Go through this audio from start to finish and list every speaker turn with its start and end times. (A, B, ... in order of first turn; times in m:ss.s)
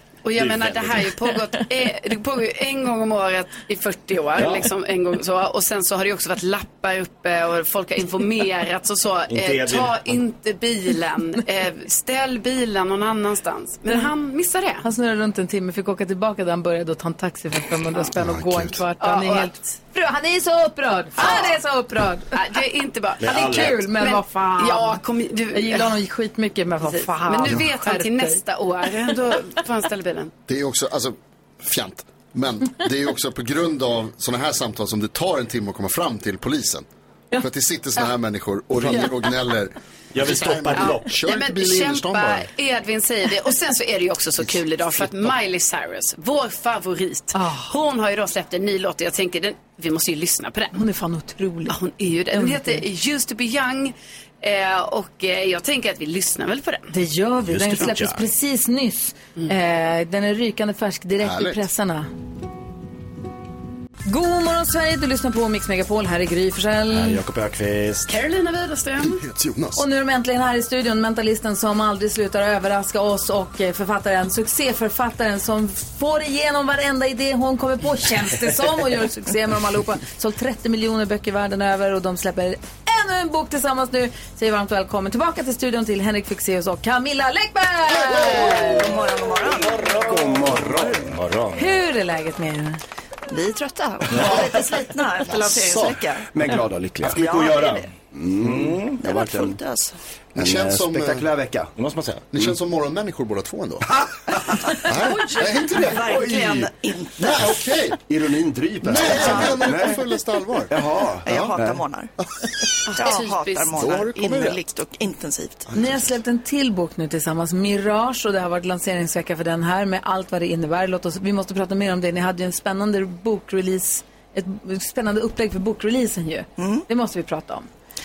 0:00.2-0:14.8 A
0:00.4-0:01.1 B
0:04.4-0:04.7 B
0:09.3-0:10.2 B
0:14.8-0:22.4 C
0:18.2-0:18.8 D
0:19.0-0:19.6 A
0:21.2-0:21.6 A
0:22.3-0:25.9 A
0:23.2-0:23.8 B
0:23.2-0:25.0 C
0:25.5-0:28.4 C
0:26.8-0:30.3 A
0:30.5-0:36.8 D
0:37.4-0:42.5 D
0:40.1-0:41.1 B
0:40.7-0:50.8 A
0:47.3-0:47.7 C
0:50.7-0:51.8 C
0:51.7-0:56.9 A
0:52.3-0:52.8 C
0:56.9-1:02.1 C
0:57.5-0:58.2 B
1:01.2-1:01.6 D
1:04.0-1:07.2 C
1:06.9-1:08.1 B
1:08.1-1:09.2 A
1:09.0-1:09.8 D
1:09.8-1:28.8 C
1:28.6-1:30.2 E
1:29.7-1:31.7 B
1:30.1-1:31.0 F
1:31.5-1:32.8 C
1:33.3-1:36.3 E
1:35.3-1:36.0 D
1:36.3-1:37.3 F
1:37.0-1:39.0 B
1:37.1-1:37.9 E
1:38.1-1:39.6 F
1:39.0-1:40.0 E
1:40.3-1:41.3 D
1:40.4-1:41.7 F
1:41.8-1:42.3 B
1:42.3-1:43.8 D
1:44.8-1:46.2 D
1:44.9-1:47.6 E
1:46.0-1:46.7 F
1:47.2-1:48.0 D
1:48.0-1:50.0 F
1:48.8-1:50.7 D
1:49.0-1:49.7 E
1:50.7-1:51.8 F
1:51.2-1:52.1 E
1:52.9-1:54.0 A
1:52.9-1:55.7 E
1:53.8-1:54.6 D
1:55.7-1:56.1 D
1:55.7-2:07.7 C
2:06.6-2:06.8 E